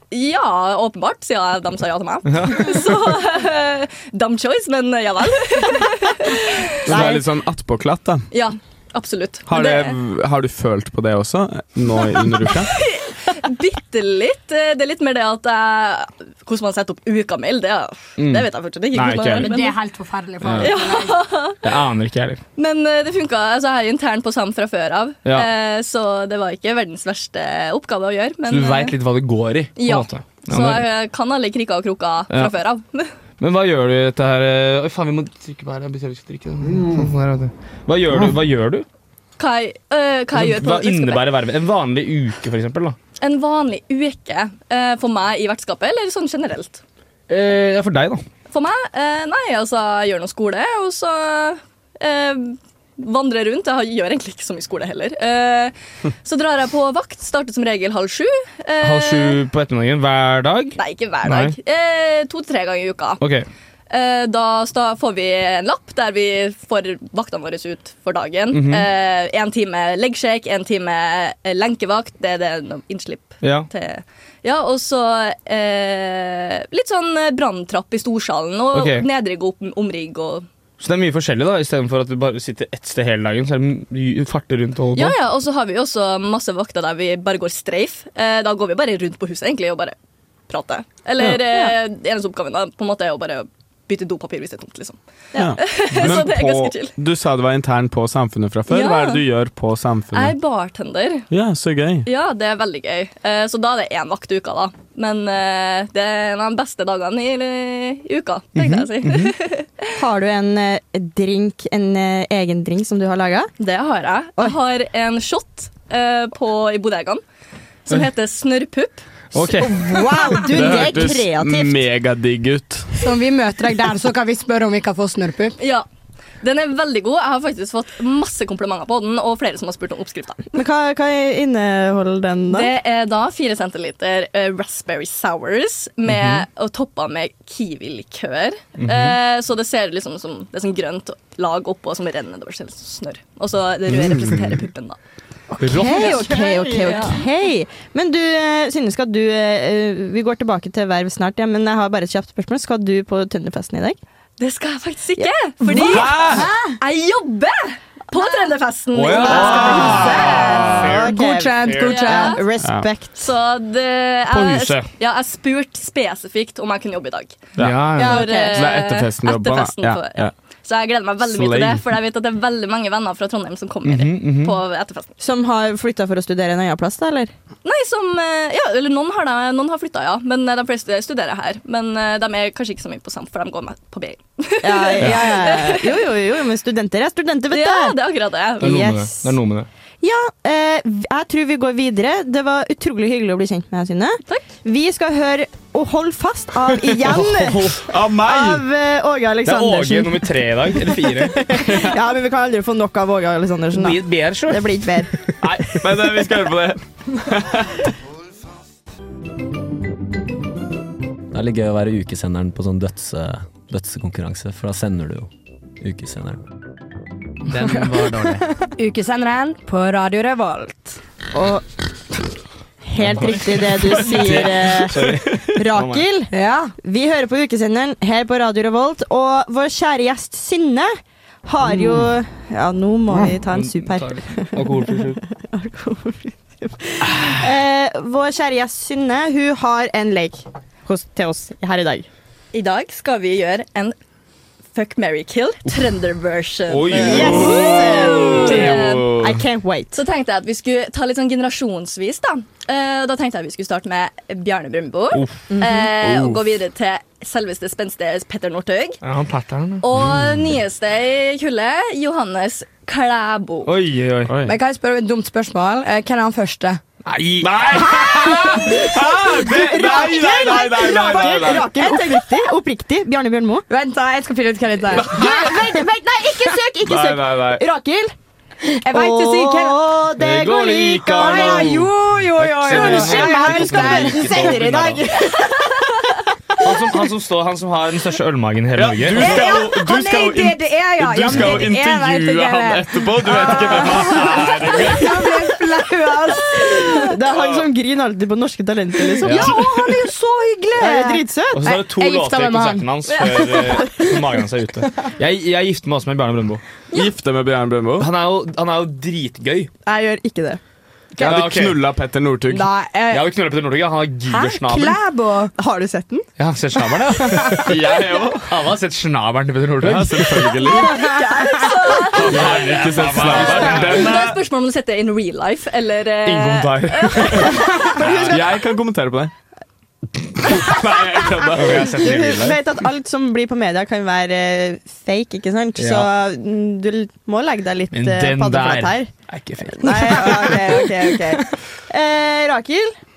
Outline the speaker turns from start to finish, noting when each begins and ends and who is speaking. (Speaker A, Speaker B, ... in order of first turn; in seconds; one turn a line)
Speaker A: 0.1-6.9
Speaker B: 2.3-2.8
Speaker C: 6.8-8.3
Speaker D: 6.9-7.2
Speaker A: 8.3-10.0
Speaker C: 9.5-12.7
Speaker A: 12.4-19.8
Speaker B: 18.2-19.5
Speaker E: 19.3-21.2
Speaker B: 20.4-20.7
Speaker A: 20.6-21.6
Speaker B: 21.6-22.4
Speaker A: 22.6-29.0
Speaker B: 28.5-30.9
Speaker A: 29.8-33.1
Speaker B: 32.3-32.5
Speaker B: 33.4-38.9
Speaker A: 39.4-41.3
Speaker B: 40.3-43.0
Speaker A: 43.2-46.8
Speaker B: 47.3-48.2
Speaker A: 48.5-59.4
Speaker B: 58.8-61.5
Speaker A: 60.8-63.2
Speaker B: 63.2-63.5
Speaker A: 63.9-80.5
Speaker B: 68.5-68.9
Speaker B: 73.4-73.7
Speaker B: 78.7-79.1
Speaker B: 80.8-85.2
Speaker A: 85.0-90.0
Speaker A: 90.5-95.0
Speaker D: 91.2-91.8
Speaker C: 95.3-100.3
Speaker A: 95.6-96.9
Speaker A: 98.7-99.2
Speaker A: 100.1-101.3
Speaker C: 101.3-102.1
Speaker A: 102.1-109.8
Speaker B: 108.5-109.3
Speaker D: 110.0-113.5
Speaker A: 113.6-117.2
Speaker A: 117.9-119.0
Speaker B: 119.3-120.2
Speaker D: 119.4-121.8
Speaker C: 120.5-123.0
Speaker E: 123.0-125.6
Speaker A: 125.6-125.8
Speaker A: 126.4-130.4
Speaker D: 130.5-132.7
Speaker A: 132.5-145.0
Speaker B: 136.1-136.4
Speaker B: 138.8-139.2
Speaker B: 145.6-146.3
Speaker D: 145.6-154.0
Speaker A: 145.9-147.2
Speaker E: 146.0-146.9
Speaker A: 154.4-156.3
Speaker D: 155.2-156.1
Speaker B: 155.9-156.4
Speaker C: 156.1-156.4
Speaker E: 156.3-156.8
Speaker A: 156.8-160.7
Speaker B: 158.9-161.8
Speaker D: 159.2-163.2
Speaker C: 159.3-160.9
Speaker E: 160.9-162.4
Speaker A: 161.9-162.4
Speaker C: 162.6-162.9
Speaker A: 163.2-167.4
Speaker B: 164.3-164.9
Speaker C: 167.6-167.9
Speaker B: 167.6-168.3
Speaker A: 168.0-175.1
Speaker D: 168.0-168.6
Speaker C: 168.5-170.3
Speaker C: 171.3-171.8
Speaker B: 173.8-174.6
Speaker D: 175.2-177.3
Speaker A: 177.6-186.0
Speaker D: 184.6-188.0
Speaker B: 185.0-185.3
Speaker A: 187.5-188.9
Speaker D: 188.6-189.3
Speaker B: 188.6-189.7
Speaker D: 190.0-205.1
Speaker B: 197.0-197.8
Speaker C: 197.9-198.6
Speaker B: 199.4-201.8
Speaker B: 203.7-204.9
Speaker C: 205.4-207.8
Speaker F: 211.3-215.3
Speaker F: 215.8-216.4
Speaker B: 217.5-218.4
Speaker E: 218.8-221.0
Speaker D: 221.3-221.7
Speaker D: 222.8-226.3
Speaker B: 223.0-226.1
Speaker E: 226.3-226.7
Speaker D: 226.8-230.9
Speaker D: 231.4-242.1
Speaker B: 233.5-235.2
Speaker A: 242.5-244.0
Speaker A: 244.7-249.2
Speaker B: 246.7-248.7
Speaker D: 246.9-250.0
Speaker C: 247.0-249.4
Speaker A: 249.9-259.0
Speaker B: 255.1-255.4
Speaker D: 255.6-255.8
Speaker B: 259.0-259.8
Speaker A: 259.8-263.7
Speaker B: 263.6-264.3
Speaker C: 264.3-264.6
Speaker E: 264.4-266.8
Speaker B: 267.0-268.6
Speaker C: 267.4-271.8
Speaker D: 269.4-273.6
Speaker E: 273.7-275.2
Speaker C: 274.9-275.5
Speaker D: 275.0-278.1
Speaker C: 276.8-277.6
Speaker E: 278.7-279.8
Speaker D: 278.9-281.9
Speaker B: 280.2-285.1
Speaker E: 281.1-284.6
Speaker D: 282.6-286.1
Speaker B: 286.6-289.4
Speaker C: 288.8-295.3
Speaker E: 289.1-297.1
Speaker D: 296.6-300.1
Speaker C: 297.3-297.6
Speaker E: 299.2-303.7
Speaker B: 299.2-299.6
Speaker D: 300.8-301.8
Speaker B: 301.5-306.6
Speaker C: 306.9-308.1
Speaker B: 308.0-309.7
Speaker D: 309.9-310.6
Speaker C: 311.2-312.7
Speaker B: 311.2-311.8
Speaker E: 312.5-313.2
Speaker B: 313.1-315.0
Speaker E: 314.3-315.5
Speaker D: 315.6-316.3
Speaker B: 316.4-317.8
Speaker E: 317.3-317.6
Speaker C: 317.6-318.5
Speaker B: 318.5-320.5
Speaker C: 319.8-321.0
Speaker E: 320.8-321.9
Speaker A: 321.0-322.6
Speaker C: 322.2-324.3
Speaker B: 322.2-324.4
Speaker A: 323.2-327.8
Speaker B: 326.2-328.4
Speaker C: 328.0-329.3
Speaker C: 330.4-332.0
Speaker B: 331.5-332.6
Speaker D: 331.7-339.1
Speaker B: 335.8-336.1
Speaker B: 337.9-341.4
Speaker D: 339.7-342.9